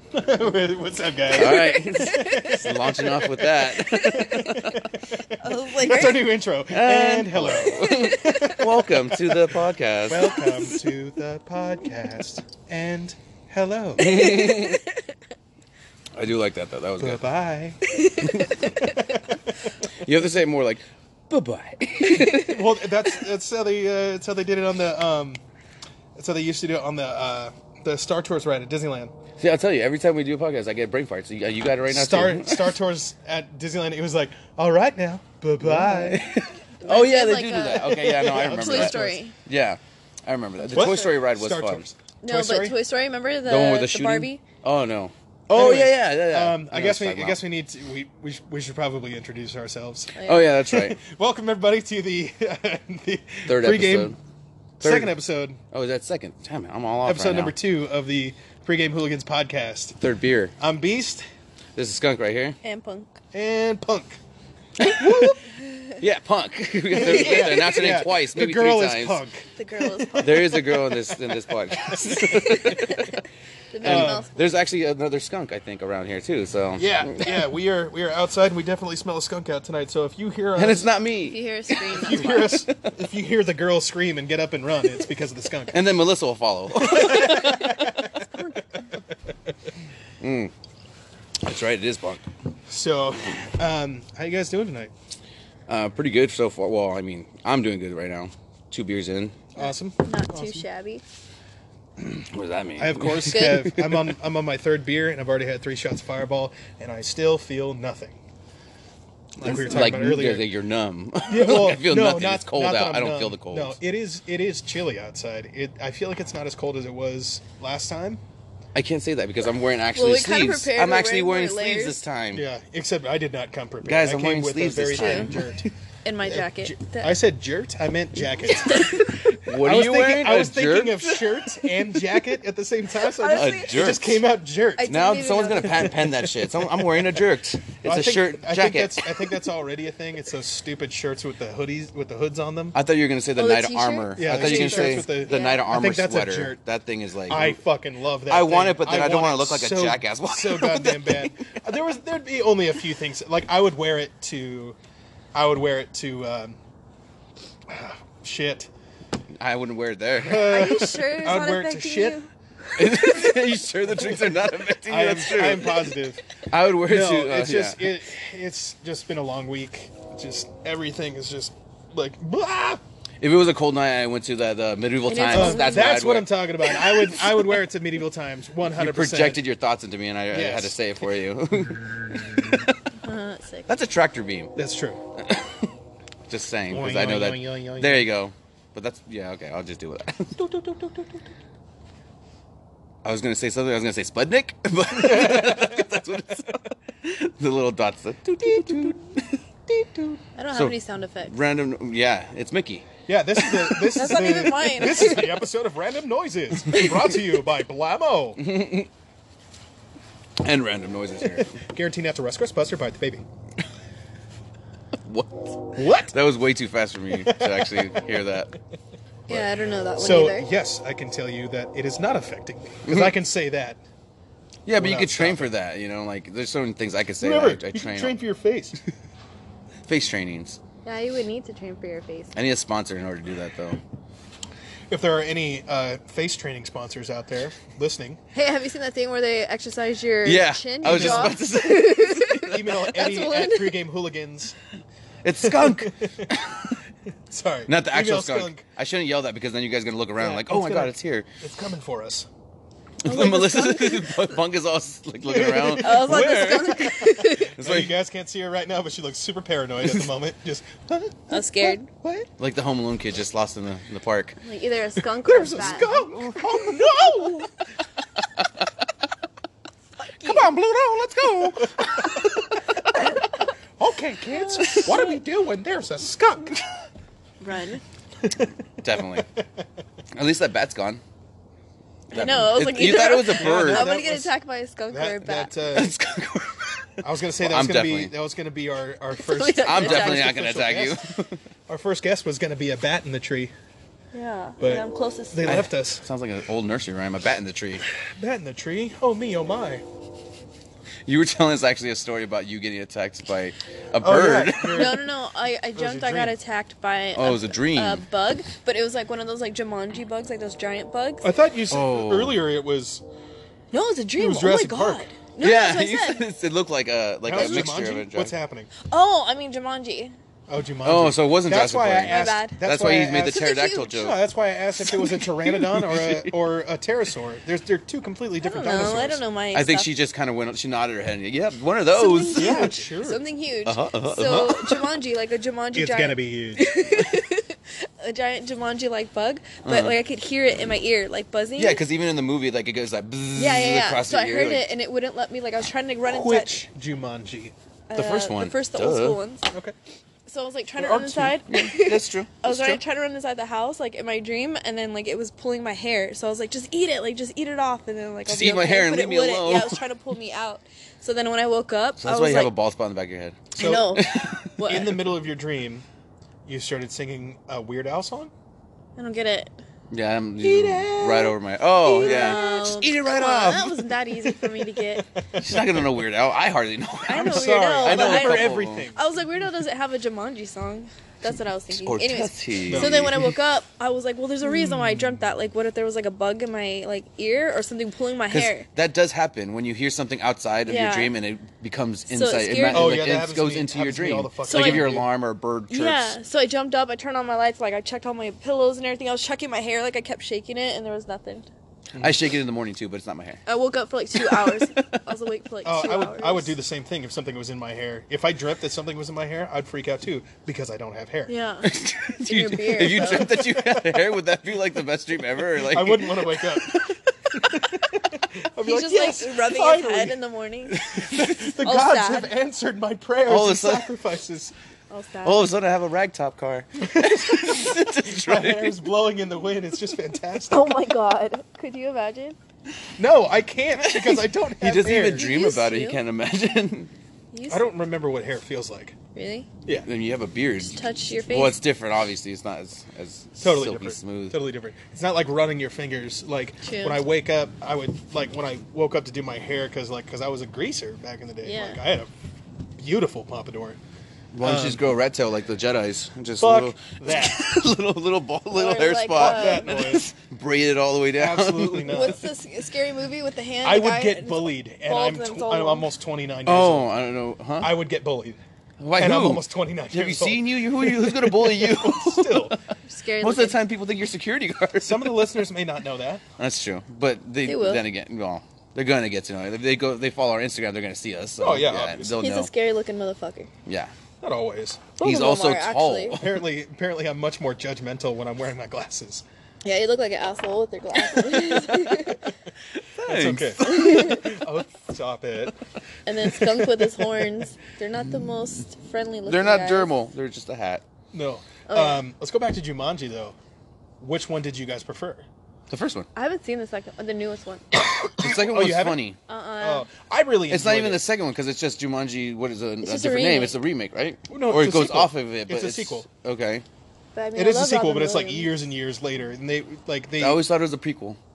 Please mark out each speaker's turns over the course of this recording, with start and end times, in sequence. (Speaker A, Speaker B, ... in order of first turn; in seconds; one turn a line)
Speaker A: 0.1-14.3
Speaker B: 1.3-4.8
Speaker C: 1.4-2.9
Speaker C: 3.9-4.7
Speaker C: 5.4-6.2
Speaker B: 6.7-10.4
Speaker C: 7.7-8.6
Speaker B: 14.0-14.8
Speaker C: 14.0-15.0
Speaker B: 16.1-17.2
Speaker A: 17.0-17.8
Speaker C: 17.9-19.0
Speaker B: 18.2-18.8
Speaker A: 18.5-19.4
Speaker B: 19.9-22.6
Speaker C: 22.0-22.6
Speaker A: 22.4-25.4
Speaker A: 26.1-29.1
Speaker B: 29.4-32.8
Speaker A: 31.9-36.2
Speaker B: 35.6-41.8
Speaker C: 36.8-39.3
Speaker A: 37.8-39.2
Speaker C: 40.7-41.1
Speaker A: 40.7-42.8
Speaker C: 42.2-44.4
Speaker B: 43.5-47.4
Speaker A: 45.5-54.2
Speaker C: 50.1-50.5
Speaker B: 50.2-51.0
Speaker B: 53.5-54.2
Speaker B: 54.8-55.1
Speaker A: 54.8-55.6
Speaker B: 55.7-57.6
Speaker A: 57.0-60.0
Speaker B: 60.0-60.5
Speaker A: 60.6-61.2
Speaker B: 61.8-62.6
Speaker C: 62.6-63.2
Speaker A: 63.3-64.2
Speaker B: 64.8-65.4
Speaker A: 64.8-65.4
Speaker B: 66.0-69.2
Speaker A: 66.9-69.5
Speaker C: 67.0-67.8
Speaker C: 69.6-70.7
Speaker A: 70.0-73.2
Speaker B: 70.2-73.1
Speaker C: 72.2-74.5
Speaker A: 73.8-74.2
Speaker B: 73.8-77.3
Speaker A: 76.8-80.9
Speaker B: 80.6-82.9
Speaker C: 81.3-82.7
Speaker A: 81.9-85.8
Speaker B: 85.7-88.0
Speaker A: 86.7-88.3
Speaker B: 90.2-90.5
Speaker B: 91.4-92.2
Speaker A: 92.7-94.9
Speaker B: 95.7-99.4
Speaker A: 99.6-100.7
Speaker C: 99.6-101.0
Speaker B: 102.0-104.0
Speaker A: 102.8-108.2
Speaker C: 103.3-103.7
Speaker A: 109.4-110.5
Speaker B: 109.4-113.8
Speaker A: 111.3-118.2
Speaker B: 118.7-122.5
Speaker C: 119.9-122.0
Speaker A: 122.3-125.7
Speaker B: 123.8-125.7
Speaker C: 125.0-125.3
Speaker C: 126.0-127.2
Speaker A: 126.2-134.9
Speaker C: 128.6-129.1
Speaker B: 129.3-132.2
Speaker C: 133.1-133.9
Speaker B: 133.3-134.2
Speaker C: 134.8-136.0
Speaker B: 134.9-139.3
Speaker A: 135.8-137.2
Speaker A: 137.8-142.8
Speaker B: 142.7-147.6
Speaker C: 143.4-145.6
Speaker A: 144.2-146.6
Speaker A: 147.3-154.8
Speaker B: 148.3-151.6
Speaker A: 155.3-156.6
Speaker A: 157.7-158.7
Speaker B: 159.4-160.7
Speaker A: 160.2-162.2
Speaker C: 160.4-162.3
Speaker B: 162.8-165.9
Speaker A: 164.0-164.3
Speaker A: 164.9-166.2
Speaker B: 166.5-167.9
Speaker A: 166.8-172.8
Speaker B: 173.2-176.4
Speaker C: 175.1-176.0
Speaker A: 175.3-179.4
Speaker B: 178.8-182.8
Speaker A: 180.3-180.8
Speaker C: 183.0-183.7
Speaker B: 183.7-184.5
Speaker A: 184.6-185.0
Speaker B: 185.2-185.7
Speaker B: 186.3-190.4
Speaker A: 186.7-188.1
Speaker A: 190.4-191.2
Speaker B: 193.0-200.8
Speaker A: 195.0-195.8
Speaker A: 198.5-198.9
Speaker C: 200.4-201.4
Speaker B: 201.3-202.9
Speaker A: 203.1-208.4
Speaker B: 203.5-203.9
Speaker C: 203.9-205.4
Speaker B: 208.4-208.9
Speaker B: 210.4-211.6
Speaker A: 211.6-213.2
Speaker B: 215.1-218.5
Speaker A: 215.8-216.1
Speaker A: 217.1-218.2
Speaker C: 219.3-220.5
Speaker A: 219.3-223.8
Speaker B: 222.9-223.2
Speaker B: 224.7-228.2
Speaker A: 224.8-225.5
Speaker A: 227.2-228.8
Speaker B: 229.9-230.6
Speaker C: 230.8-232.3
Speaker B: 232.3-233.8
Speaker A: 234.9-238.2
Speaker C: 238.3-243.8
Speaker B: 240.2-242.8
Speaker A: 240.8-241.4
Speaker A: 242.4-244.6
Speaker B: 245.2-246.7
Speaker A: 245.4-246.4
Speaker A: 247.3-248.6
Speaker B: 247.7-251.3
Speaker A: 250.2-252.3
Speaker C: 253.1-254.2
Speaker B: 253.1-257.0
Speaker A: 255.2-262.3
Speaker C: 255.8-257.5
Speaker B: 257.6-257.9
Speaker C: 261.3-261.9
Speaker B: 262.4-264.4
Speaker C: 264.4-265.9
Speaker A: 265.1-267.5
Speaker B: 265.8-267.1
Speaker C: 270.2-270.5
Speaker B: 270.2-273.2
Speaker A: 271.4-276.8
Speaker C: 274.3-275.2
Speaker B: 274.6-275.0
Speaker C: 277.4-277.8
Speaker A: 278.2-279.4
Speaker B: 278.8-279.3
Speaker B: 280.1-281.0
Speaker C: 282.1-285.6
Speaker B: 282.1-283.9
Speaker A: 283.3-284.3
Speaker A: 284.9-285.9
Speaker B: 285.7-288.1
Speaker A: 287.0-291.0
Speaker C: 289.2-290.4
Speaker B: 289.6-291.4
Speaker A: 291.7-293.5
Speaker C: 294.1-295.7
Speaker A: 294.6-296.1
Speaker B: 295.4-297.9
Speaker A: 298.0-299.8
Speaker B: 301.1-305.0
Speaker A: 304.0-305.1
Speaker C: 304.7-311.3
Speaker A: 305.8-306.4
Speaker B: 307.2-308.0
Speaker A: 311.2-313.0
Speaker B: 311.7-312.4
Speaker C: 313.7-316.3
Speaker A: 314.2-315.1
Speaker B: 315.4-318.3
Speaker A: 317.2-318.7
Speaker C: 318.9-320.1
Speaker A: 320.5-329.2
Speaker B: 320.8-324.2
Speaker C: 322.1-324.0
Speaker B: 324.9-326.3
Speaker C: 328.4-329.9
Speaker B: 329.5-332.7
Speaker C: 331.9-341.8
Speaker A: 332.4-333.2
Speaker B: 333.7-334.9
Speaker A: 335.8-336.7
Speaker B: 339.6-340.0
Speaker B: 341.6-344.7
Speaker C: 343.4-346.6
Speaker A: 346.1-347.5
Speaker C: 347.9-349.5
Speaker B: 347.9-349.2
Speaker A: 349.5-349.8
Speaker C: 350.3-362.5
Speaker B: 350.8-352.8
Speaker B: 358.3-359.8
Speaker B: 362.0-364.5
Speaker A: 363.6-364.0
Speaker C: 363.6-365.0
Speaker A: 364.6-365.9
Speaker A: 366.5-368.3
Speaker C: 369.0-369.6
Speaker B: 369.9-373.9
Speaker A: 370.4-371.3
Speaker C: 371.8-375.1
Speaker A: 372.0-372.4
Speaker A: 374.3-376.1
Speaker B: 375.4-378.9
Speaker C: 377.1-388.7
Speaker A: 377.1-379.1
Speaker B: 381.8-383.3
Speaker A: 382.7-383.4
Speaker A: 384.4-385.2
Speaker B: 388.3-396.2
Speaker C: 390.7-391.1
Speaker C: 392.1-393.0
Speaker A: 392.7-395.1
Speaker C: 394.5-394.9
Speaker C: 395.7-401.5
Speaker B: 402.0-403.4
Speaker C: 403.5-406.6
Speaker B: 404.2-405.0
Speaker A: 405.6-411.3
Speaker C: 411.3-413.4
Speaker B: 411.6-417.4
Speaker A: 413.2-414.0
Speaker A: 415.6-416.8
Speaker A: 417.4-420.2
Speaker C: 418.6-420.8
Speaker B: 420.8-421.4
Speaker A: 420.9-424.5
Speaker C: 421.6-422.3
Speaker B: 423.3-423.9
Speaker C: 424.9-425.5
Speaker B: 425.2-428.8
Speaker A: 426.8-430.7
Speaker C: 430.5-432.4
Speaker A: 433.0-435.3
Speaker B: 433.8-436.9
Speaker C: 435.1-436.0
Speaker C: 437.3-437.7
Speaker A: 437.5-439.0
Speaker C: 439.1-439.5
Speaker B: 439.8-444.4
Speaker C: 440.7-441.6
Speaker A: 443.4-452.1
Speaker C: 446.6-447.0
Speaker C: 451.4-451.8
Speaker A: 452.8-453.8
Speaker B: 454.3-462.1
Speaker A: 454.4-454.8
Speaker A: 456.4-457.5
Speaker C: 458.5-459.8
Speaker A: 459.2-460.1
Speaker A: 461.1-462.2
Speaker C: 461.9-465.9
Speaker A: 463.6-466.9
Speaker B: 466.5-467.7
Speaker A: 467.6-468.4
Speaker B: 468.8-472.6
Speaker A: 468.9-472.6
Speaker C: 472.8-473.6
Speaker B: 473.2-475.3
Speaker A: 474.8-476.2
Speaker B: 476.4-482.5
Speaker C: 477.4-477.8
Speaker A: 481.4-482.2
Speaker C: 482.2-483.5
Speaker B: 483.7-483.9
Speaker A: 484.2-484.9
Speaker C: 485.0-486.2
Speaker B: 485.0-486.4
Speaker A: 486.1-489.2
Speaker C: 489.6-492.3
Speaker B: 492.7-494.4
Speaker A: 493.1-495.6
Speaker C: 493.6-494.3
Speaker C: 496.1-499.9
Speaker A: 496.3-497.4
Speaker B: 499.3-500.8
Speaker A: 501.1-503.4
Speaker C: 501.7-502.0
Speaker A: 504.0-505.3
Speaker B: 505.7-506.1
Speaker C: 506.1-507.8
Speaker B: 508.1-509.2
Speaker A: 508.1-509.1
Speaker C: 509.3-509.9
Speaker A: 509.6-511.0
Speaker B: 510.5-516.6
Speaker C: 512.8-513.6
Speaker A: 514.3-516.1
Speaker C: 517.1-518.5
Speaker A: 517.4-520.4
Speaker B: 520.2-521.2